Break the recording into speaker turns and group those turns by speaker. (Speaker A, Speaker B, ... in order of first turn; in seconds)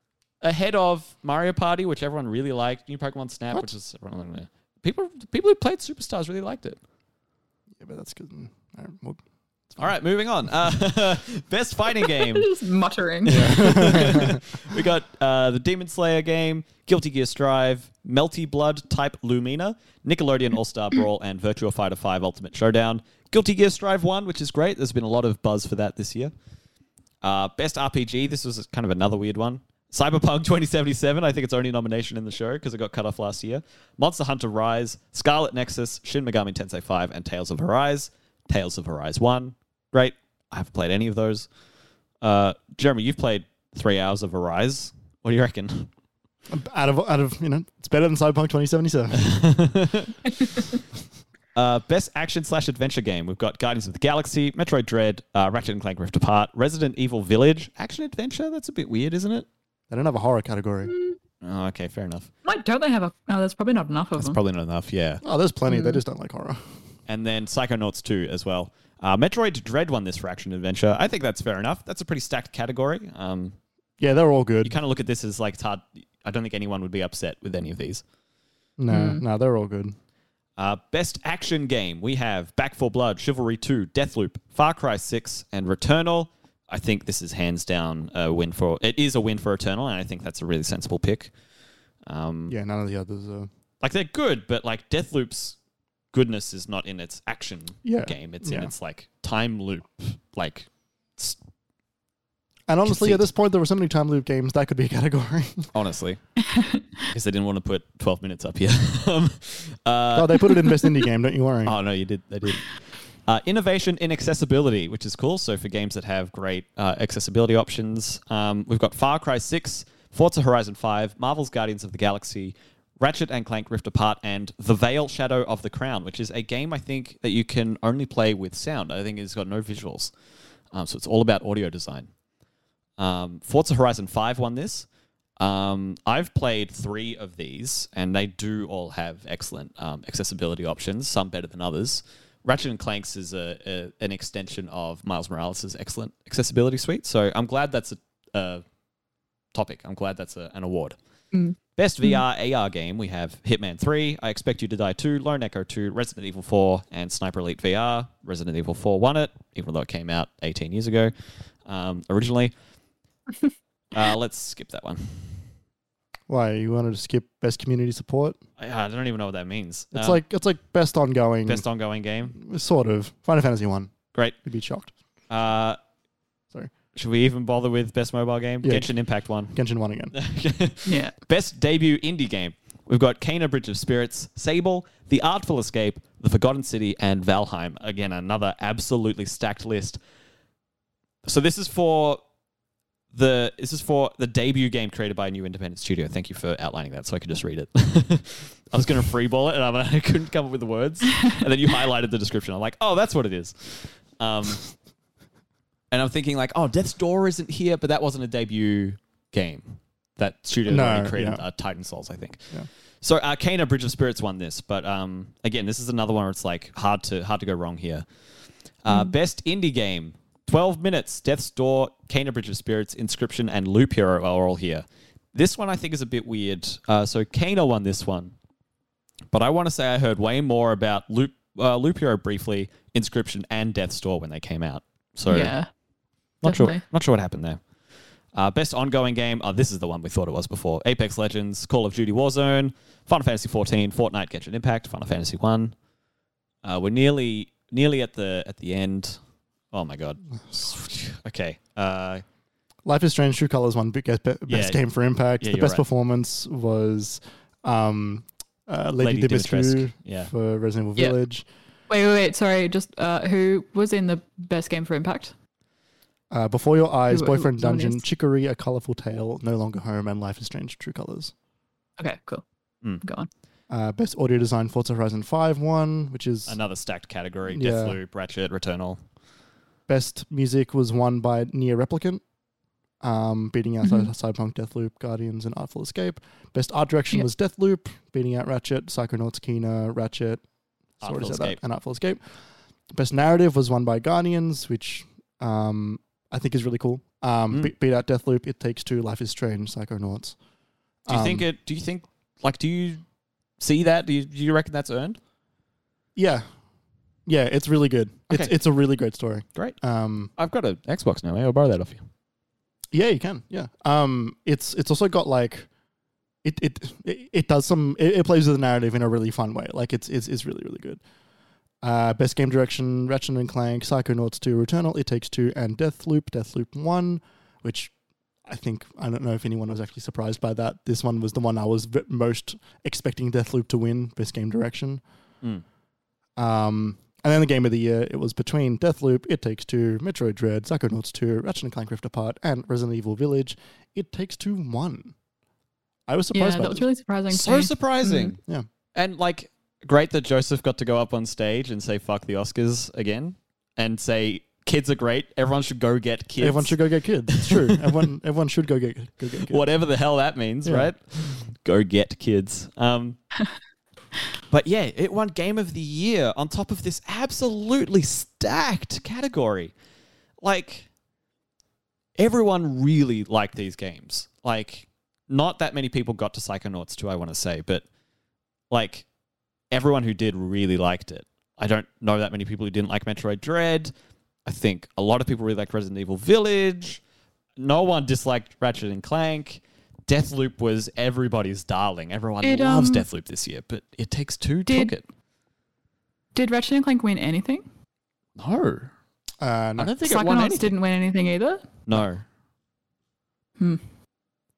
Speaker A: 0.4-6.8, 9.8-12.5, 13.2-26.3, 27.2-41.5, 42.2-45.9, 49.1-50.3, 51.5-59.5, 61.4-62.3, 64.2-65.2, 67.1-73.5, 74.6-78.0, 80.6-91.3, 92.1-92.5, 93.8-95.5, 96.1-101.4, 102.8-103.2, 105.7-106.2, 107.1-110.5, 111.7-130.1, 130.7-132.1, 133.0-134.9, 135.4-148.6, 149.5-151.0, 151.8-161.1, 161.7-162.5, 163.9-165.4, 168.6-170.2, 171.5-172.3, 175.3-175.8, 176.9-179.5, 180.1-190.0, 191.2-192.2, 193.1-204.7, 205.9-218.0, 218.8-228.3, 229.3-235.5, 236.4-237.6, 238.3-245.7, 246.6-249.2, 249.7-252.2, 254.5-254.8, 255.4-255.8, 259.0-260.3, 276.5-279.0, 291.0-291.6, 301.1-303.0, 303.6-305.2, 310.4-312.0, 347.3-348.4, 348.9-356.8, 357.3-358.0, 359.4-363.2, 364.5-369.7, 370.4-370.9, 372.2-377.8, 378.7-379.1, 379.7-383.9, 384.4-387.0, 387.6-395.0, 398.4-398.9, 399.8-400.7, 401.9-402.2
Speaker B: 7.8-9.9, 13.3-14.4, 46.5-49.4, 59.9-60.9, 65.2-66.6, 74.0-74.8, 78.8-79.9, 92.5-93.5, 97.8-98.7, 102.7-105.7, 110.1-111.7, 166.3-168.4, 169.9-171.6, 172.3-174.9, 178.6-178.9, 179.5-180.1, 210.7-211.4, 252.8-261.4, 266.3-271.3, 273.7-276.6, 277.5-278.0, 279.9-282.2, 283.0-290.4, 291.0-292.2, 292.9-300.4, 301.1-301.4, 306.1-306.4, 307.3-310.3, 312.9-315.7, 316.4-321.0, 321.8-327.9, 328.4-335.0, 336.4-345.1, 346.1-346.8, 356.4-359.6, 360.6-360.9, 399.4-399.9
Speaker C: 12.0-14.2, 60.9-61.1, 62.4-64.4, 65.7-66.0, 78.9-79.2, 106.5-106.8, 151.3-152.2, 180.8-181.1, 235.3-235.7, 236.4-236.8, 261.9-265.3, 267.1-268.0, 272.0-272.4, 273.0-273.3, 346.3-348.3, 392.4-393.1, 394.7-394.9, 396.3-397.6, 400.0-401.7